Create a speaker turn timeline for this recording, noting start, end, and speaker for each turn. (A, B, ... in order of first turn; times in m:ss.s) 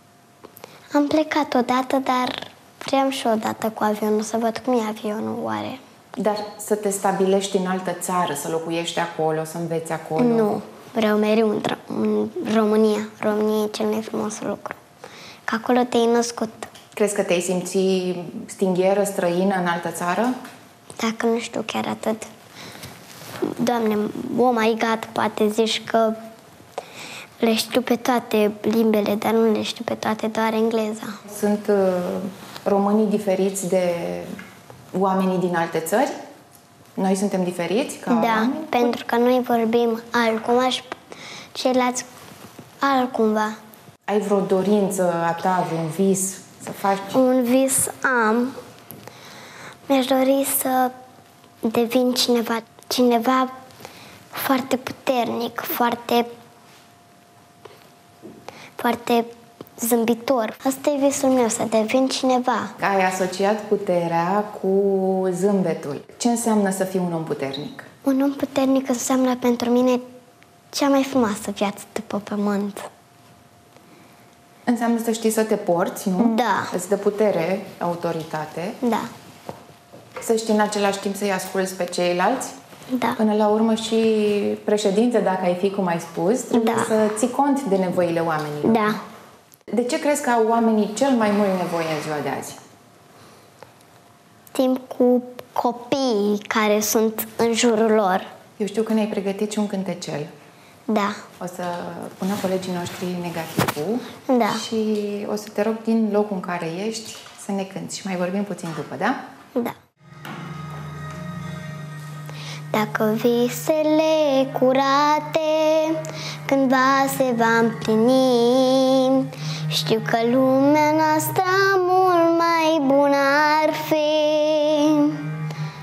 0:00.9-0:05.8 A
0:06.2-0:10.5 B
0:10.2-0:14.8 A
0:15.4-0:16.7 A
0:16.9-0:20.3 B
0:21.0-0:22.3 A
0:23.4-0:26.2 A
0:27.4-0:31.2 A
0:31.3-0:34.3 B
0:34.9-0:36.1 B
0:37.0-0:38.9 B
0:38.1-0:40.9 A
0:41.5-0:42.1 A
0:42.8-0:43.6 A
0:44.1-0:47.2 B
0:47.1-0:48.6 A
0:49.9-0:50.9 A
0:51.6-0:53.5 A
0:54.3-0:56.3 A
0:58.8-1:02.8 A
1:02.8-1:07.9 B
1:08.0-1:10.0 A
1:10.7-1:12.9 A
1:14.6-1:18.8 B
1:16.2-1:16.7 A
1:18.8-1:19.1 A
1:20.2-1:22.5 B
1:22.9-1:23.2 A
1:23.2-1:29.0 B
1:26.5-1:26.9 A
1:28.6-1:29.0 A
1:29.7-1:32.6 B
1:34.5-1:38.3 A
1:38.6-1:40.3 B
1:40.9-1:41.2 A
1:41.4-1:49.2 B
1:44.3-1:44.6 A
1:52.7-2:05.3 A